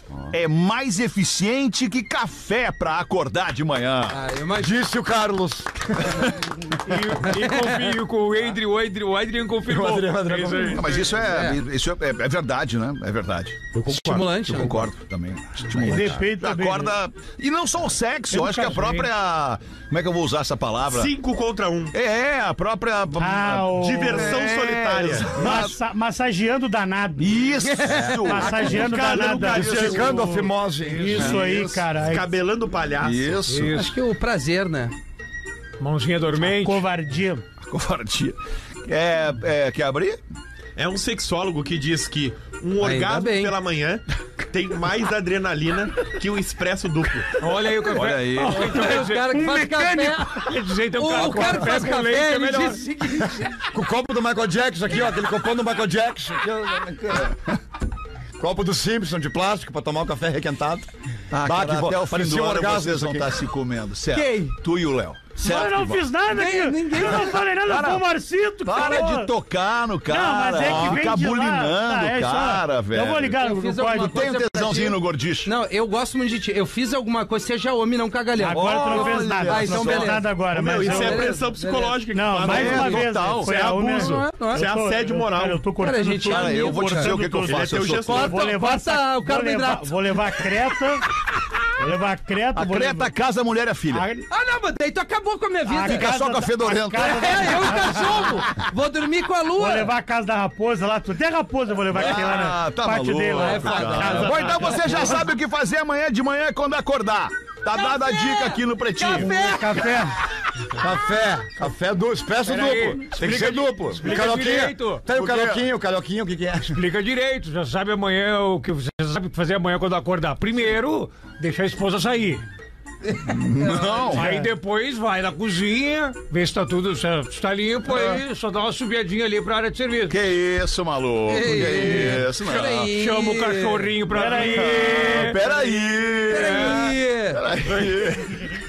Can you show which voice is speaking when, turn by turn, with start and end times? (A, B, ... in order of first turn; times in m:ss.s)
0:00.3-0:04.2 A
0:04.1-0:04.8 B
0:04.6-0:06.4 C
0:06.8-0:11.0 D
0:07.3-0:07.6 B
0:09.6-0:10.9 C
0:10.7-0:21.1 A
0:11.2-0:11.6 B
0:13.7-0:14.4 E
0:13.9-0:14.9 B
0:15.8-0:16.9 F
0:18.3-0:19.1 F
0:20.9-0:21.9 E
0:21.9-0:25.8 A
0:23.2-0:24.4 F
0:23.8-0:25.4 E
0:25.4-0:27.5 F
0:27.2-0:30.4 A
0:27.7-0:28.2 B
0:27.9-0:28.5 C
0:28.1-0:30.1 F
0:28.4-0:30.4 E
0:29.5-0:31.4 C
0:30.8-0:32.3 F
0:31.0-0:31.9 A
0:32.0-0:33.4 E
0:33.0-0:33.8 A
0:33.5-0:34.0 D
0:33.7-0:34.9 B
0:35.8-0:36.8 D
0:36.4-0:37.4 F
0:37.7-0:40.2 A
0:40.8-0:47.4 E
0:42.8-0:43.5 B
0:47.4-0:52.8 D
0:47.9-0:48.6 A
0:48.5-0:53.6 B
0:53.6-0:57.4 C
0:58.4-1:00.9 C
1:01.3-1:06.2 A
1:01.4-1:03.4 C
1:04.1-1:04.5 B
1:05.4-1:09.3 F
1:06.3-1:07.4 B
1:07.5-1:13.4 A
1:10.1-1:14.3 F
1:13.4-1:20.2 B
1:14.0-1:15.5 A
1:18.4-1:21.4 F
1:18.5-1:20.3 A
1:20.5-1:25.6 E
1:20.8-1:23.0 B
1:22.1-1:31.0 F
1:22.4-1:23.5 A
1:23.8-1:24.6 B
1:25.8-1:27.1 B
1:26.2-1:28.3 A
1:27.4-1:28.4 E
1:28.0-1:30.1 B
1:31.8-1:33.1 F
1:32.5-1:34.1 A
1:33.9-1:34.2 F
1:34.3-1:36.1 B
1:35.7-1:38.1 F
1:35.8-1:38.2 A
1:37.0-1:39.9 B
1:39.6-1:45.2 F
1:41.9-1:49.4 A
1:43.3-1:44.7 B
1:47.7-1:49.8 B
1:49.1-1:50.2 F
1:50.8-1:56.8 C
1:52.5-1:55.0 D
1:55.1-1:55.6 A
1:56.7-2:02.4 D
2:03.2-2:04.2 A
2:04.1-2:04.5 F
2:04.1-2:10.2 D
2:10.1-2:12.9 A
2:11.3-2:13.9 B
2:12.9-2:15.4 D
2:14.1-2:15.3 F
2:14.5-2:18.5 A
2:16.3-2:17.4 B